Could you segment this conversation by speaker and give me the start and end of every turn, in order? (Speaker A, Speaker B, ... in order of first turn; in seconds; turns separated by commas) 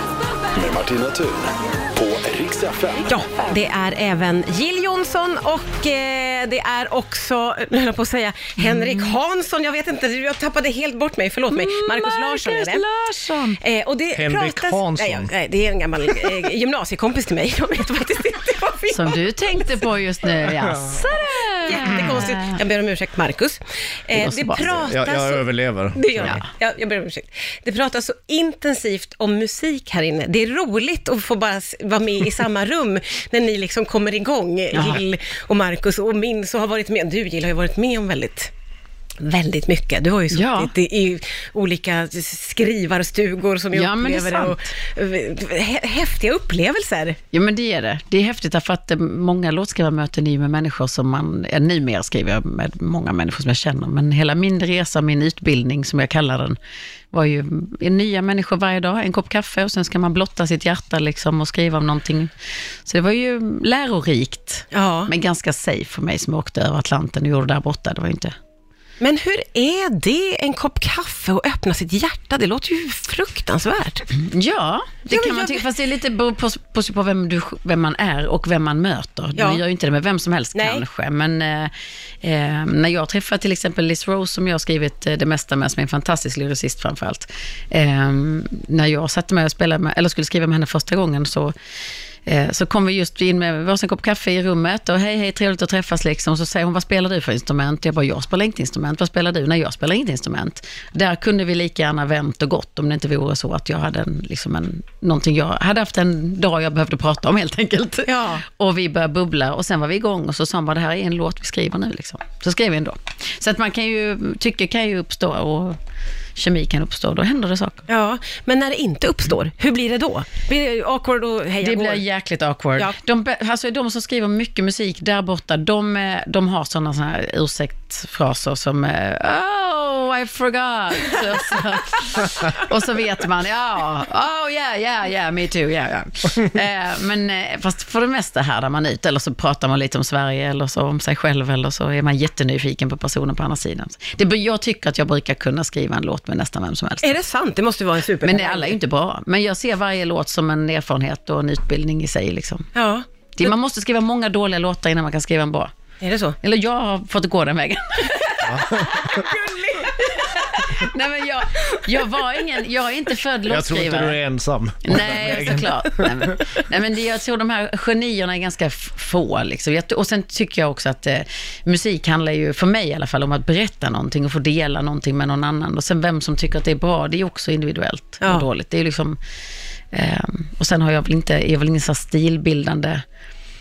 Speaker A: 0.5-3.2, Speaker B: 3.1-12.8, Speaker C: 8.6-9.2, Speaker C: 11.5-13.6, Speaker B: 13.6-19.6, Speaker D: 14.1-15.3, Speaker C: 18.9-22.6, Speaker B: 21.6-25.4, Speaker C: 24.1-24.7, Speaker D: 24.7-26.4, Speaker B: 25.9-38.5, Speaker C: 34.7-35.0, Speaker B: 39.2-47.2, Speaker C: 40.3-40.7, Speaker C: 43.7-44.7, Speaker C: 47.3-56.6, Speaker C: 57.1-62.3, Speaker C: 62.9-68.3, Speaker B: 64.7-65.1, Speaker B: 69.0-74.1, Speaker C: 74.1-91.5, Speaker B: 75.1-75.7, Speaker B: 79.4-79.6, Speaker B: 80.5-80.8, Speaker C: 92.2-115.8, Speaker B: 108.1-108.4, Speaker C: 116.4-117.8, Speaker B: 117.9-122.0, Speaker C: 121.6-147.2, Speaker B: 147.0-148.8, Speaker C: 148.2-152.7, Speaker B: 152.8-153.5, Speaker C: 153.4-155.7, Speaker B: 156.0-156.4, Speaker C: 156.4-159.3, Speaker D: 158.4-159.2, Speaker B: 159.0-160.7, Speaker C: 160.0-164.2, Speaker D: 163.5-166.3, Speaker C: 164.8-179.2, Speaker C: 179.9-183.0